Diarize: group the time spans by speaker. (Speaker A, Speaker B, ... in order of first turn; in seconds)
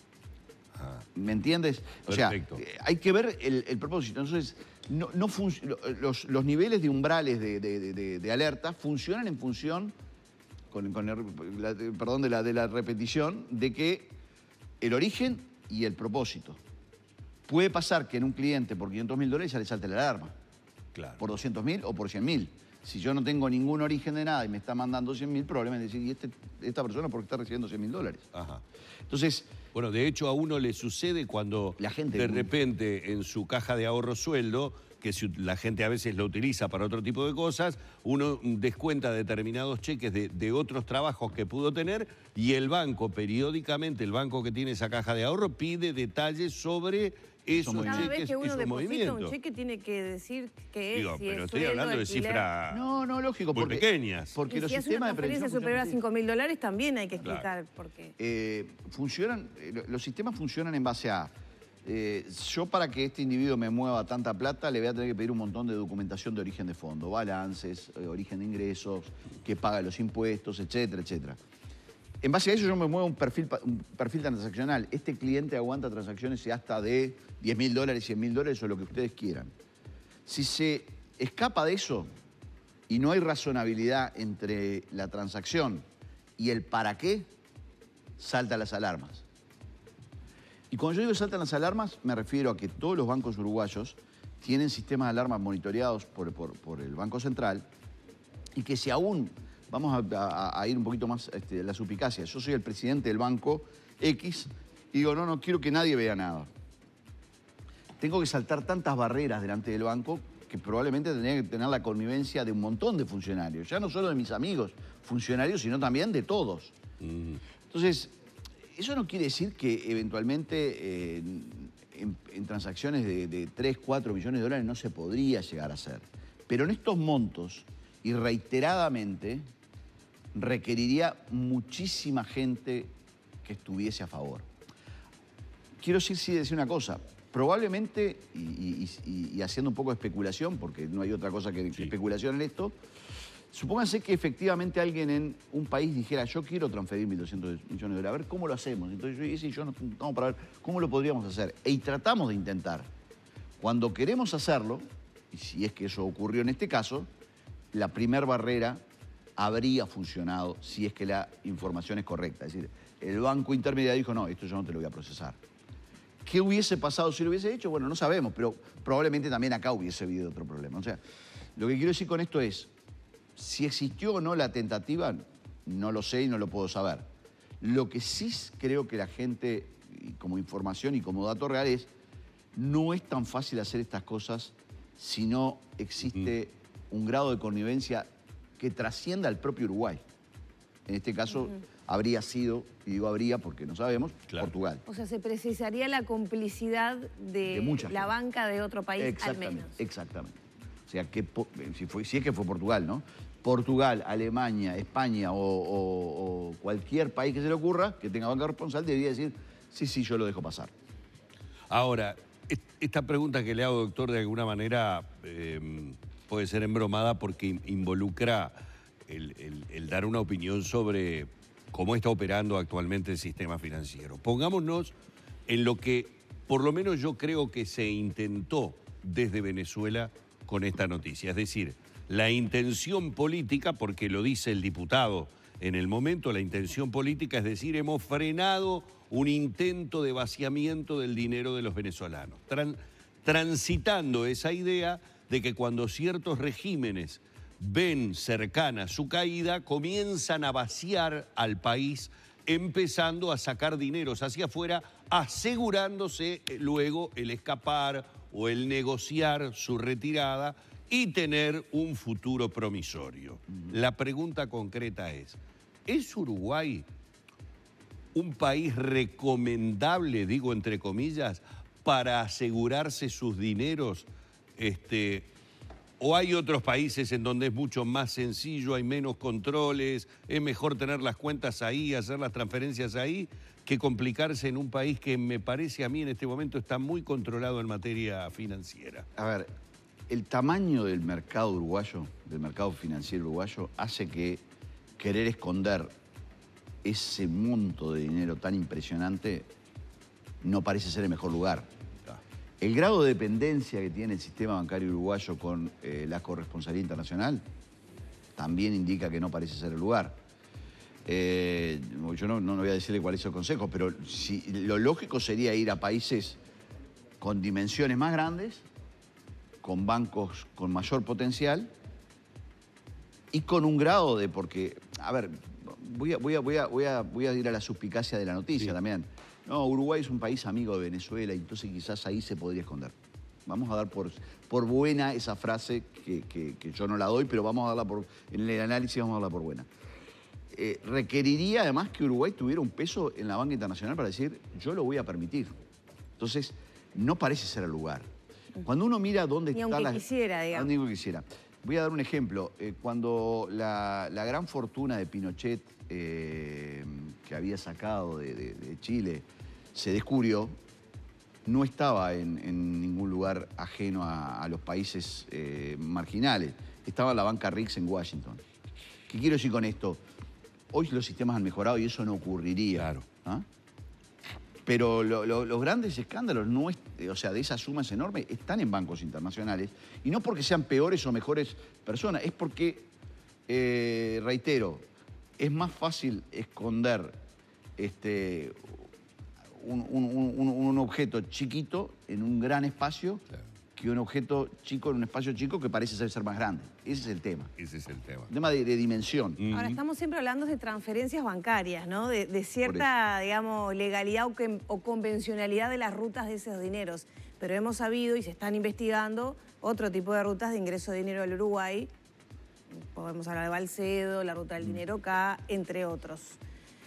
Speaker A: 0.7-1.1, 2.1-2.6, 20.9-21.2, 28.3-28.6, 29.7-49.3, 50.9-52.8, 53.5-54.3, 117.0-117.4, 211.7-218.6, 219.1-224.9, 225.5-266.9, 268.1-275.3, 276.0-289.1, 372.8-373.0, 397.6-398.3, 399.4-399.8
Speaker B: 1.1-9.9, 10.7-14.1, 14.8-16.6, 17.4-20.4, 21.2-28.3, 29.1-29.5, 31.8-32.5, 47.5-48.1, 52.7-56.0, 58.2-61.3, 61.8-71.4, 72.2-79.5, 80.2-82.1, 82.9-85.8, 86.4-87.3, 88.2-89.2, 90.7-97.7, 98.5-106.5, 108.0-116.7, 117.7-118.1, 118.7-129.4, 130.3-132.9, 133.4-134.5, 135.8-142.8, 143.5-152.9, 153.6-157.1, 157.7-158.8, 159.4-165.4, 166.2-171.0, 171.6-172.7, 173.3-177.1, 177.6-181.9, 182.5-190.0, 190.9-194.8, 197.5-198.1, 199.0-200.4, 200.9-210.7, 289.1-289.5, 290.1-294.4, 295.0-295.9, 296.8-299.5, 300.4-301.7, 302.6-307.4, 308.4-310.2, 311.1-316.4, 317.2-318.6, 319.6-321.7, 323.3-332.9, 333.4-339.7, 340.5-345.6, 346.2-348.1, 348.6-360.5, 361.4-368.4, 369.1-370.0, 370.7-373.4, 374.6-382.9, 383.5-384.8, 385.4-387.2, 387.8-388.8, 389.6-393.2, 393.8-397.5, 398.3-399.4
Speaker C: 47.8-52.5, 54.5-58.1, 194.8-199.7, 349.5-350.7, 399.5-411.9, 412.8-416.4